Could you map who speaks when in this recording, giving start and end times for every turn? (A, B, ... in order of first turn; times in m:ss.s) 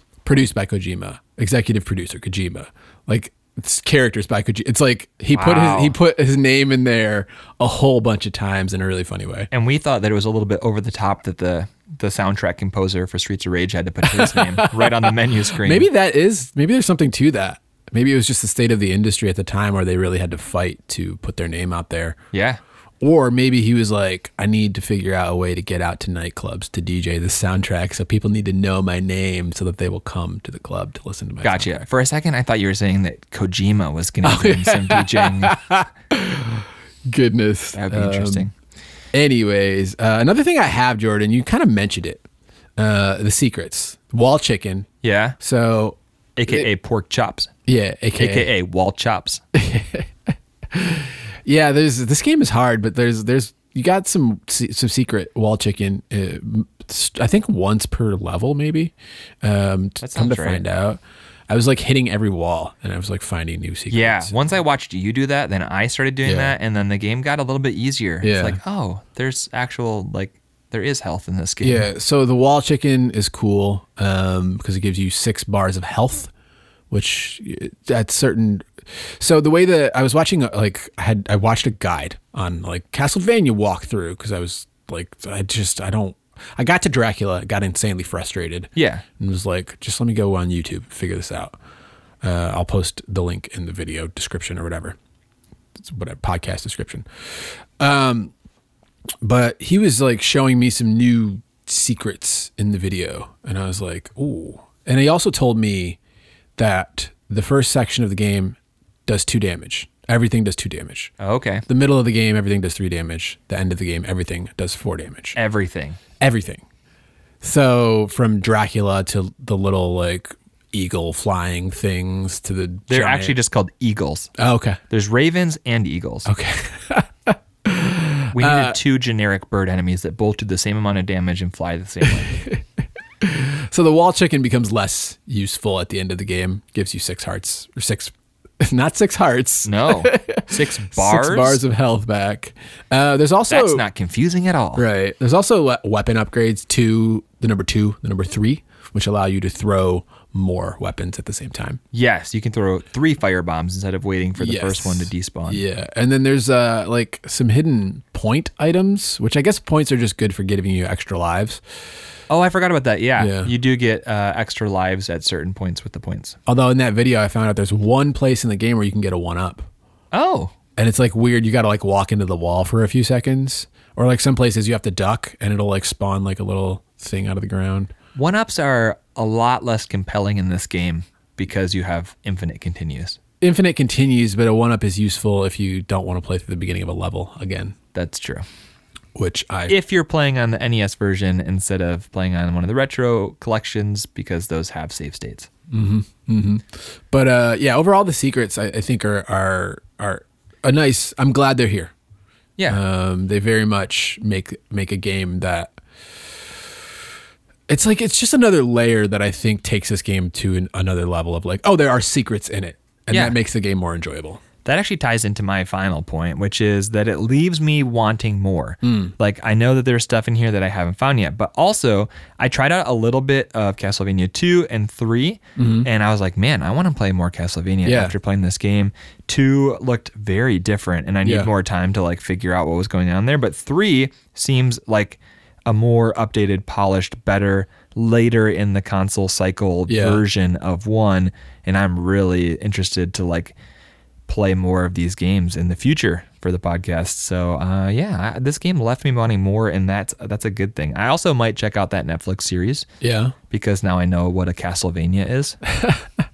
0:00.2-0:09.5 A
0:05.3-0:06.0 B
0:09.5-0:15.9 B
0:14.0-0:22.2 A
0:22.3-0:22.6 B
0:23.0-0:31.7 A
0:31.4-0:35.6 B
0:34.2-0:38.5 A
0:37.7-0:38.5 B
0:39.1-0:42.2 A
0:42.8-0:44.9 A
0:45.0-0:45.4 B
0:45.4-0:46.0 A
0:46.4-0:47.5 B
0:47.7-0:48.5 A
0:48.2-0:49.4 B
0:49.5-0:50.1 A
0:50.7-1:04.3 A
1:00.0-1:00.6 B
1:03.9-1:11.9 B
1:06.2-1:06.5 A
1:08.2-1:08.6 A
1:11.6-1:16.3 A
1:16.9-1:31.6 A
1:28.8-1:29.0 B
1:32.2-1:35.0 A
1:35.8-1:38.3 A
1:39.2-1:46.0 A
1:46.6-1:51.1 A
1:51.2-1:51.6 B
1:51.7-1:55.4 A
1:55.4-1:56.0 B
1:56.2-1:56.6 A
1:57.4-2:03.4 A
2:02.9-2:04.3 B
2:04.4-2:04.8 A
2:04.9-2:06.3 B
2:06.2-2:08.8 A
2:08.3-2:12.3 B
2:12.0-2:12.6 A
2:13.2-2:23.8 A
2:19.6-2:21.6 B
2:23.5-2:24.8 B
2:24.8-2:31.8 A
2:31.9-2:35.6 B
2:34.4-2:41.6 A
2:42.3-2:46.4 B
2:43.2-2:43.5 A
2:46.4-2:49.7 A
2:50.1-2:50.5 B
2:50.8-2:57.9 A
2:58.2-3:03.2 B
3:03.4-3:07.7 A
3:07.9-3:08.4 B
3:09.1-3:09.7 A
3:09.7-3:15.5 B
3:15.7-3:21.9 A
3:22.7-3:25.8 A
3:27.7-3:34.4 A
3:33.1-3:33.4 B
3:34.6-4:03.5 B
3:38.8-3:39.1 A
3:45.6-3:45.9 A
3:47.8-3:48.1 A
3:51.2-3:51.5 A
3:59.9-4:00.2 A
4:04.3-4:12.9 B
4:13.0-4:13.3 A
4:13.5-4:15.6 B
4:15.7-4:16.0 A